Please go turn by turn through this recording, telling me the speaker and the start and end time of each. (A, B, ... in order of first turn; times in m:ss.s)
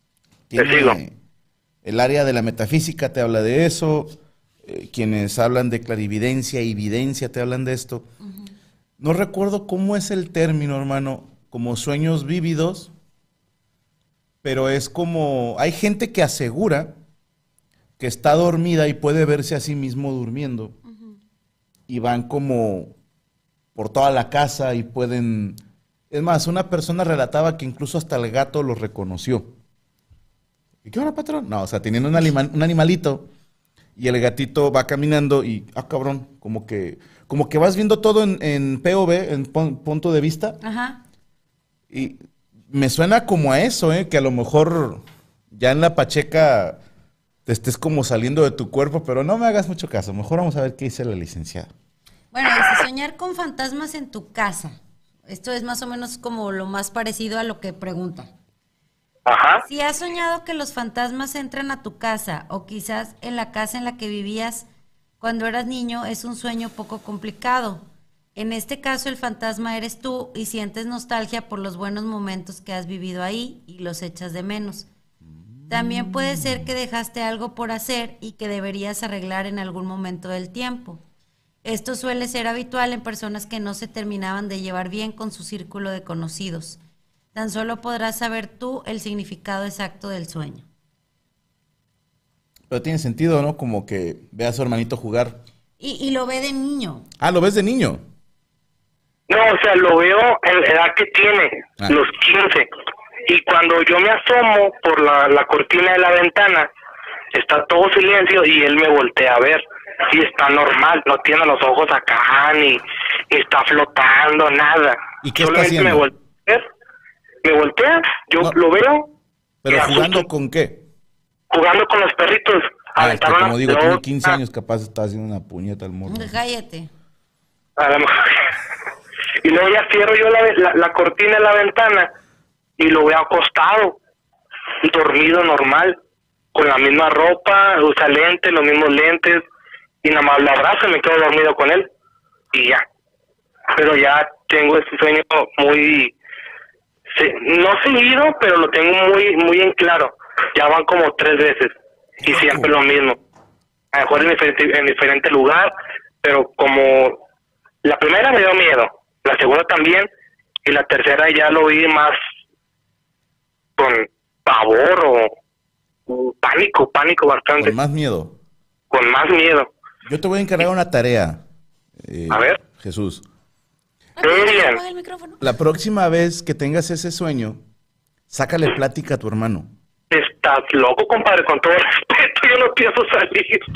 0:00.5-0:01.2 A
0:00.6-0:01.0 B
0:01.8-0:08.1 A
0:08.2-0:08.5 C
0:09.0-0:12.9 A
0:14.4-0:17.0 A
0:18.0-0:20.8 A
0:20.9-0:21.1 C
0:21.9-0:22.9 A
0:23.8-0:29.5 A
0:30.8-0:33.3 A
0:34.0-0:40.6 A
0:40.6-0:41.0 C
0:41.9-0:42.2 A
0:42.7-0:46.8 A
0:47.4-0:51.7 A
0:52.3-0:58.3 C
0:59.2-0:59.6 B
0:59.6-1:04.6 C
1:05.2-1:07.8 C
1:08.4-1:14.9 C
1:15.6-1:16.6 A
1:15.7-1:21.0 C
1:21.6-1:26.8 C
1:27.3-1:30.6 C
1:32.7-1:35.4 A
1:35.8-1:37.1 C
1:37.2-1:38.0 A
1:39.3-1:42.7 B
1:43.3-1:46.7 B
1:47.3-1:56.6 B
1:55.2-1:56.1 A
1:57.4-1:59.1 B
1:59.6-2:00.9 A
1:59.7-2:00.2 B
2:01.5-2:04.3 B
2:03.0-2:06.3 A
2:06.1-2:06.9 C
2:07.8-2:08.4 B
2:09.4-2:12.1 B
2:12.8-2:14.0 B
2:14.8-2:16.0 B
2:16.5-2:19.4 B
2:20.0-2:21.9 B
2:22.5-2:22.8 B
2:23.7-2:26.1 B
2:27.1-2:33.2 B
2:33.9-2:37.2 B
2:37.8-2:40.1 B
2:40.6-2:42.2 B
2:43.8-2:45.3 B
2:46.1-2:47.7 B
2:47.6-2:48.4 A
2:48.9-2:49.7 B
2:50.0-2:51.4 A
2:52.0-2:53.2 A
2:52.3-2:52.6 B
2:54.2-2:55.4 C
2:54.2-2:54.8 B
2:55.4-2:57.6 A
2:58.3-2:59.7 A
3:00.1-3:03.6 B